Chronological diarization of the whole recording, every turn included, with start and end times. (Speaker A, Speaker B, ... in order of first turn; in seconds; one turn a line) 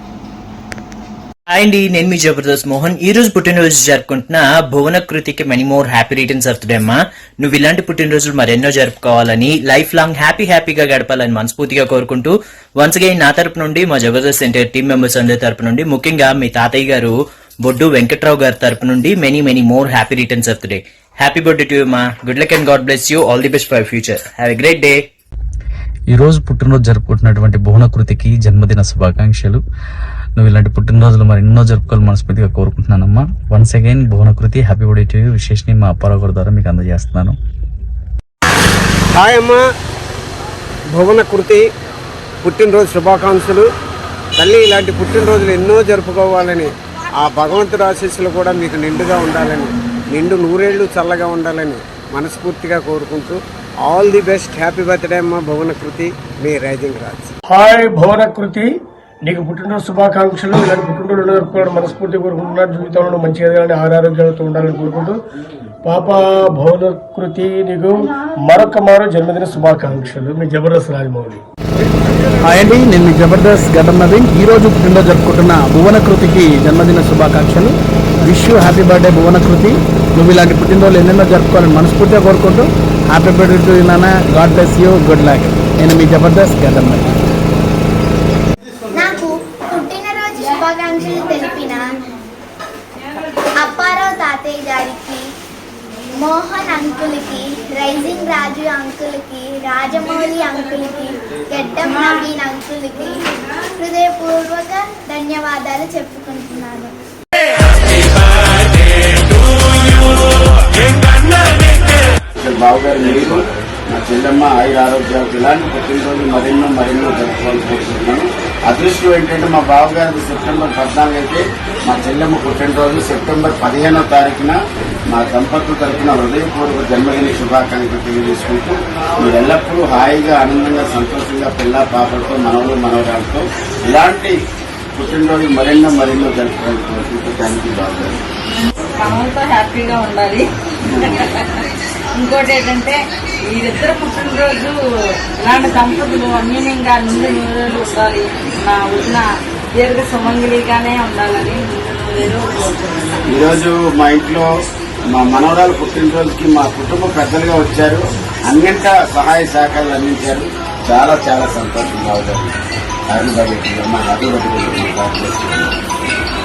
Speaker A: 1.5-25.0
Speaker B: 26.1-29.6
Speaker B: 30.4-37.3
Speaker C: 39.1-39.6
Speaker C: 40.9-41.6
Speaker C: 42.4-43.6
Speaker C: 44.4-57.3
Speaker D: 57.5-58.7
Speaker D: 59.2-65.2
Speaker D: 65.8-71.4
Speaker E: 72.4-87.2
Speaker F: 88.9-91.8
Speaker F: 93.6-95.2
Speaker F: 96.2-103.2
Speaker F: 103.8-106.9
Speaker G: 112.4-124.6
Speaker G: 125.1-134.3
Speaker G: 134.9-138.2
Speaker H: 139.0-140.4
Speaker G: 140.9-141.2
Speaker H: 141.1-141.5
Speaker H: 142.2-143.0
Speaker H: 143.5-144.7
Speaker H: 145.4-149.2
Speaker H: 149.8-153.1
Speaker G: 153.3-154.4
Speaker G: 155.1-162.5
Speaker G: 163.1-165.7